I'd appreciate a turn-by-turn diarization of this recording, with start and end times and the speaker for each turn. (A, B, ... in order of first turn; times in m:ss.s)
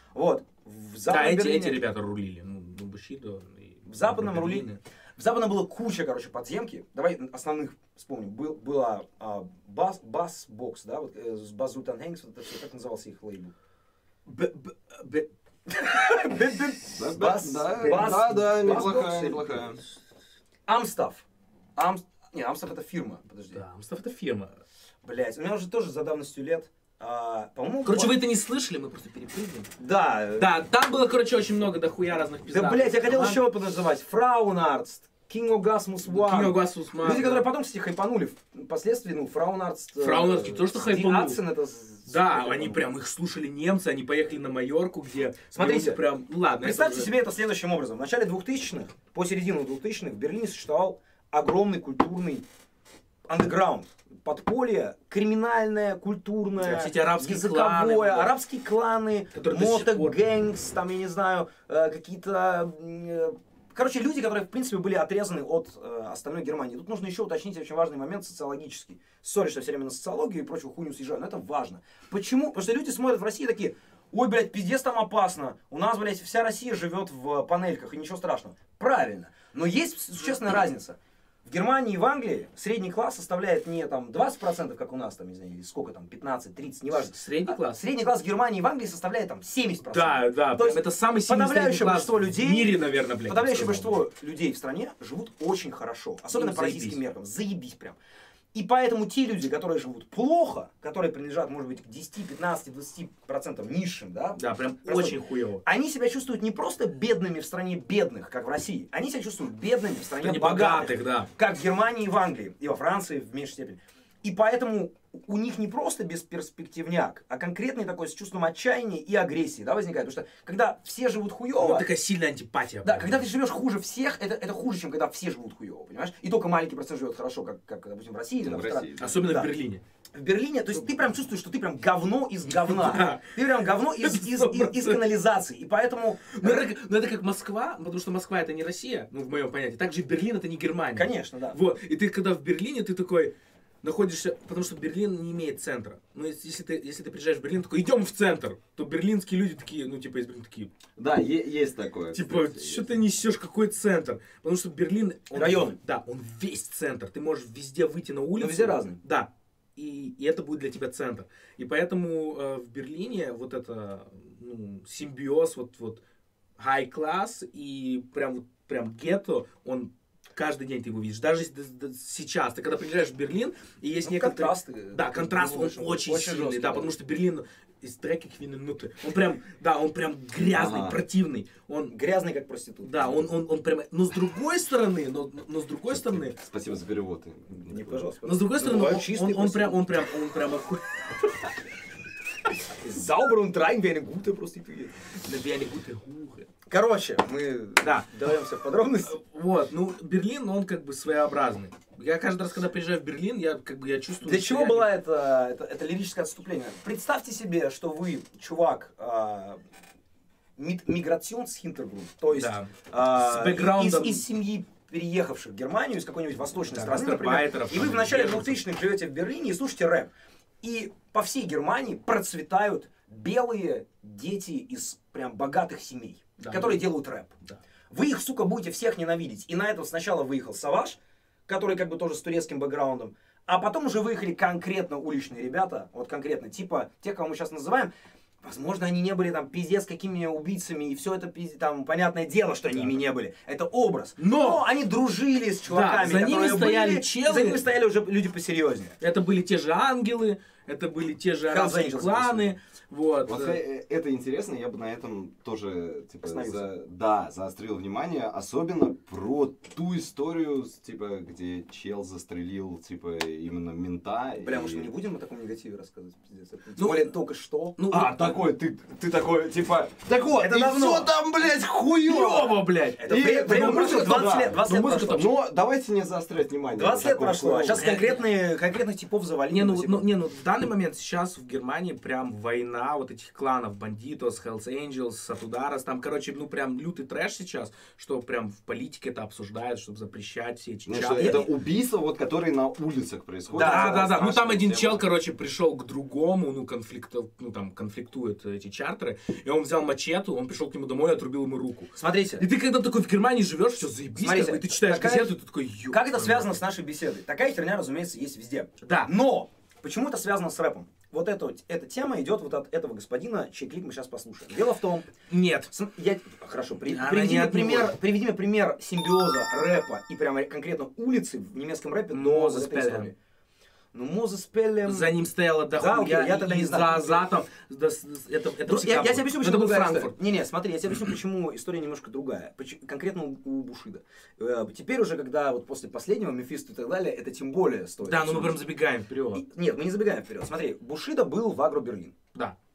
0:00.1-0:01.8 A
0:01.1-0:04.8 B
0:03.9-0:13.5 A
0:14.3-0:15.3 B
0:15.8-0:19.5 A
0:17.0-0:19.8 C
0:17.9-0:18.2 B
0:20.7-0:21.2 A
0:21.8-0:23.6 A
0:23.5-0:24.6 B
0:25.0-0:28.2 A
0:27.8-0:29.7 B
0:29.8-0:30.5 A
0:30.4-0:33.4 B
0:32.5-0:42.8 A
0:36.0-0:37.5 B
0:40.0-0:41.4 B
0:42.1-0:47.2 B
0:45.5-0:46.0 A
0:46.6-0:52.4 A
0:53.3-1:38.0 A
0:56.6-0:58.3 B
0:59.3-1:00.2 B
1:27.0-1:27.8 B
1:29.9-1:34.0 B
1:36.3-1:37.0 B
1:38.5-2:01.9 A
1:44.4-1:45.6 B
1:50.2-1:51.3 B
2:01.6-2:03.3 B
2:02.8-2:09.5 A
2:08.4-2:09.2 C
2:09.0-2:09.8 B
2:10.1-2:16.7 A
2:12.5-2:13.3 B
2:14.0-2:15.0 B
2:16.3-2:30.7 B
2:21.0-2:21.6 A
2:31.0-2:32.9 C
2:32.1-2:46.0 B
2:35.3-2:35.8 A
2:38.4-2:39.0 A
2:46.6-3:02.0 B
2:54.0-2:57.0 A
3:00.5-3:01.0 C
3:01.9-3:03.3 A
3:02.8-3:06.4 B
3:05.9-3:08.1 C
3:07.7-3:09.8 A
3:08.2-3:11.3 B
3:12.8-3:14.9 A
3:15.2-3:16.5 B
3:16.7-3:19.2 A
3:17.8-3:18.1 B
3:19.1-3:24.9 B
3:24.2-3:29.6 A
3:30.6-3:40.1 A
3:32.3-3:34.2 B
3:36.7-3:38.6 B
3:40.6-3:47.4 A
3:46.4-3:46.9 B
3:47.9-3:57.9 A
3:58.4-4:09.0 A
4:04.2-4:04.6 B
4:05.7-4:07.6 B
4:09.0-4:13.6 B
4:11.5-4:12.6 A
4:13.3-4:24.9 C
4:16.2-4:16.7 A
4:24.4-4:27.8 A
4:26.8-4:27.1 B
4:27.8-4:28.4 B
4:27.9-4:38.0 C
4:30.4-4:31.2 A
4:32.0-4:35.4 B
4:33.0-4:35.3 A
4:36.8-4:40.0 A
4:37.8-4:38.3 B
4:39.5-4:51.4 B
4:50.9-4:55.1 C
4:51.2-4:51.5 A
4:53.5-4:54.3 A
4:53.5-5:06.6 B
5:02.0-5:02.4 A
5:04.2-5:05.4 A
5:05.9-5:15.1 A
5:08.8-5:09.1 B
5:15.3-5:15.7 B
5:15.7-5:23.2 A
5:16.9-5:18.0 B
5:22.1-5:23.1 B
5:23.9-5:25.2 A
5:24.8-5:30.2 B
5:25.7-5:27.3 A
5:28.7-5:38.6 A
5:38.0-5:39.4 B
5:39.3-5:42.2 A